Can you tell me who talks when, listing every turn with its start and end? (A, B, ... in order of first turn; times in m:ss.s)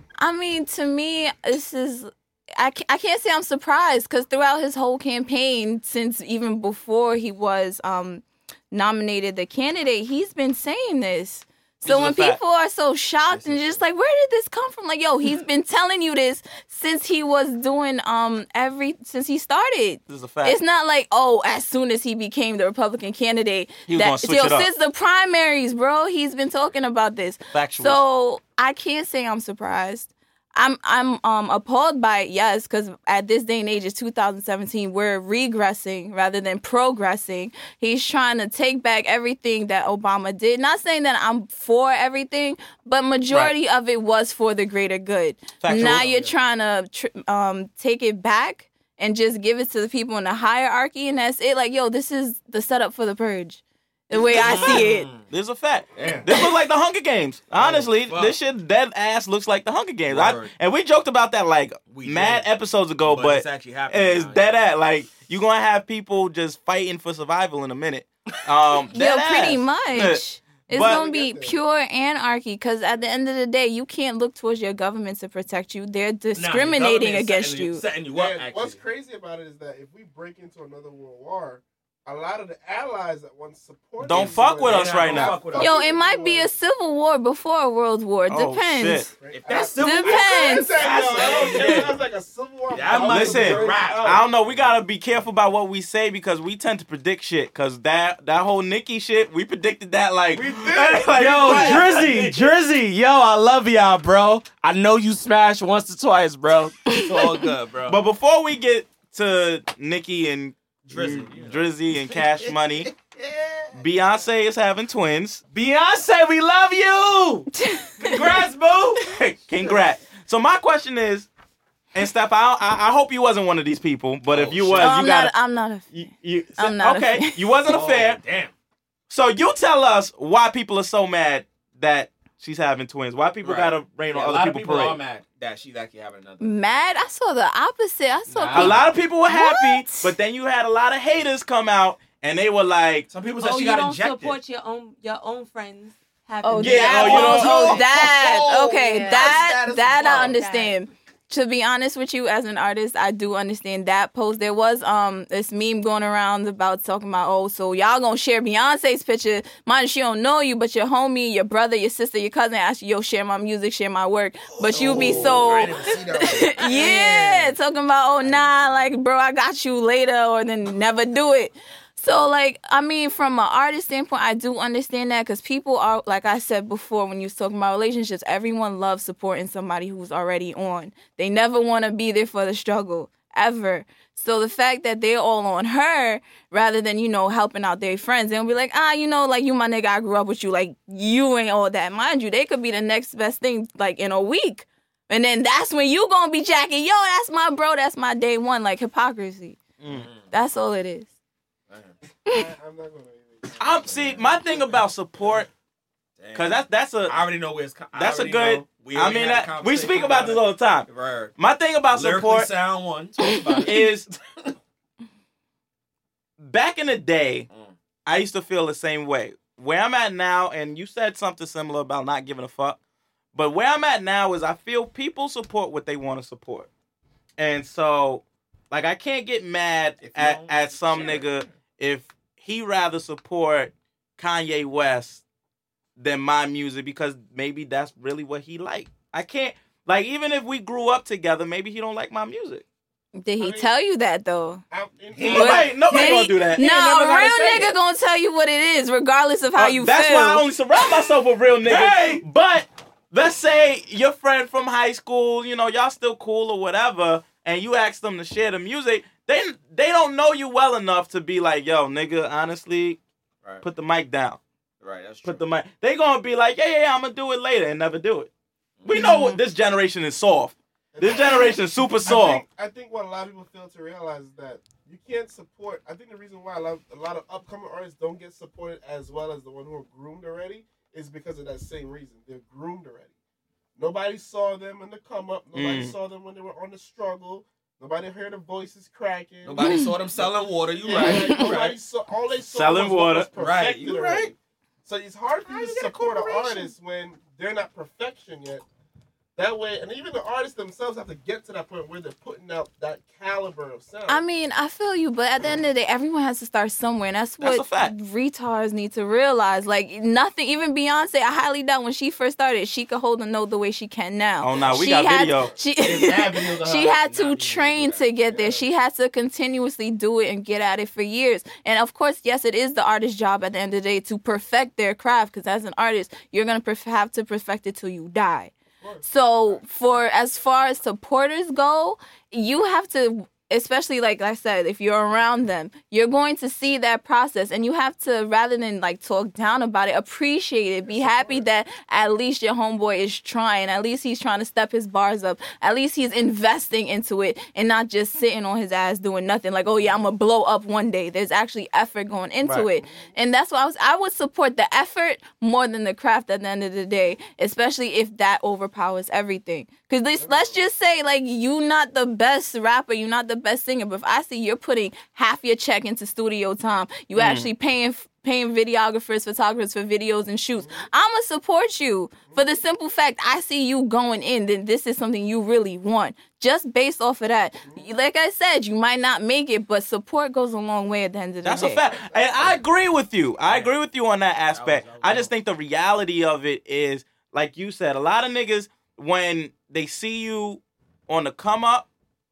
0:00.2-0:55.1 A
0:11.8-0:12.4 B
0:13.3-0:13.8 C
0:20.1-0:20.6 B
0:23.9-0:24.7 B
0:27.5-0:28.0 B
0:45.6-0:46.1 B
0:45.7-0:46.3 C
0:54.3-0:55.2 C
0:55.3-1:11.0 B
0:55.9-0:56.4 C
0:57.6-0:58.3 C
1:00.1-1:00.5 C
1:01.9-1:02.5 C
1:03.0-1:04.7 C
1:08.9-1:17.8 A
1:10.7-1:11.6 D
1:16.3-1:18.8 C
1:18.1-1:26.5 D
1:24.0-1:25.4 B
1:24.1-1:25.7 C
1:25.5-1:29.1 A
1:28.3-1:29.1 B
1:29.2-1:34.3 D
1:29.3-1:32.0 C
1:29.6-1:30.7 A
1:32.7-1:34.2 C
1:32.9-1:42.3 B
1:40.3-1:42.4 D
1:41.1-1:48.0 C
1:46.9-1:47.5 A
1:47.9-1:52.9 B
1:50.8-1:53.8 C
1:53.7-1:55.4 B
1:55.5-1:57.5 C
1:57.5-1:58.3 A
1:58.0-1:59.8 C
1:59.5-2:01.3 B
2:01.9-2:05.3 B
2:04.3-2:05.0 C
2:04.8-2:05.9 A
2:05.9-2:08.2 B
2:06.6-2:07.4 A
2:07.6-2:08.5 C
2:09.1-2:15.0 B
2:13.4-2:16.5 C
2:16.4-2:20.1 A
2:18.3-2:18.9 C
2:18.5-2:23.1 B
2:23.1-2:24.4 C
2:23.4-2:28.2 E
2:26.4-3:19.6 A
2:26.6-2:27.8 B
2:27.1-2:27.8 C
2:28.7-2:30.8 E
2:29.1-2:30.4 C
2:44.5-2:47.5 C
2:48.2-2:48.5 C
3:19.8-3:20.1 B
3:19.9-3:20.2 C
3:20.3-3:21.1 A
3:22.3-3:23.6 D
3:23.6-3:25.5 B
3:23.8-3:24.3 C
3:26.2-3:31.3 C
3:26.3-3:27.2 B
3:27.9-3:32.5 B
3:31.9-3:34.5 C
3:33.6-3:34.1 B
3:36.4-3:37.5 B
3:38.0-3:42.8 B
3:43.3-3:46.7 B
3:47.4-3:55.2 B
3:50.0-3:51.4 C
3:56.0-4:02.6 B
4:03.2-4:04.6 A
4:03.4-4:03.7 D
4:04.7-4:05.8 D
4:05.1-4:06.2 C
4:05.3-4:07.7 B
4:05.3-4:10.4 A
4:09.6-4:23.0 B
4:11.6-4:12.2 C
4:23.6-4:24.4 B
4:24.8-4:25.4 C
4:25.2-4:28.3 B
4:28.8-4:29.1 C
4:28.8-4:32.4 B
4:28.9-4:29.4 A
4:31.0-4:43.1 D
4:43.8-4:50.2 D
4:45.5-4:45.9 B
4:49.4-4:51.8 C
4:49.6-4:49.9 A
4:50.8-4:54.3 D
4:51.0-4:51.5 A
4:52.5-4:53.3 B
4:53.4-4:54.3 C
4:54.8-4:58.6 D
4:55.5-4:56.7 A
4:59.4-5:04.2 D
5:04.1-5:28.5 A
5:07.4-5:07.9 B
5:14.4-5:15.5 B
5:15.8-5:18.6 C
5:28.8-5:29.6 D
5:29.0-6:21.8 A
5:40.9-5:41.4 D
6:00.2-6:00.5 D
6:07.2-6:07.5 B
6:21.4-6:31.9 B
6:21.6-6:22.4 D
6:23.5-6:23.7 C
6:24.5-6:25.3 C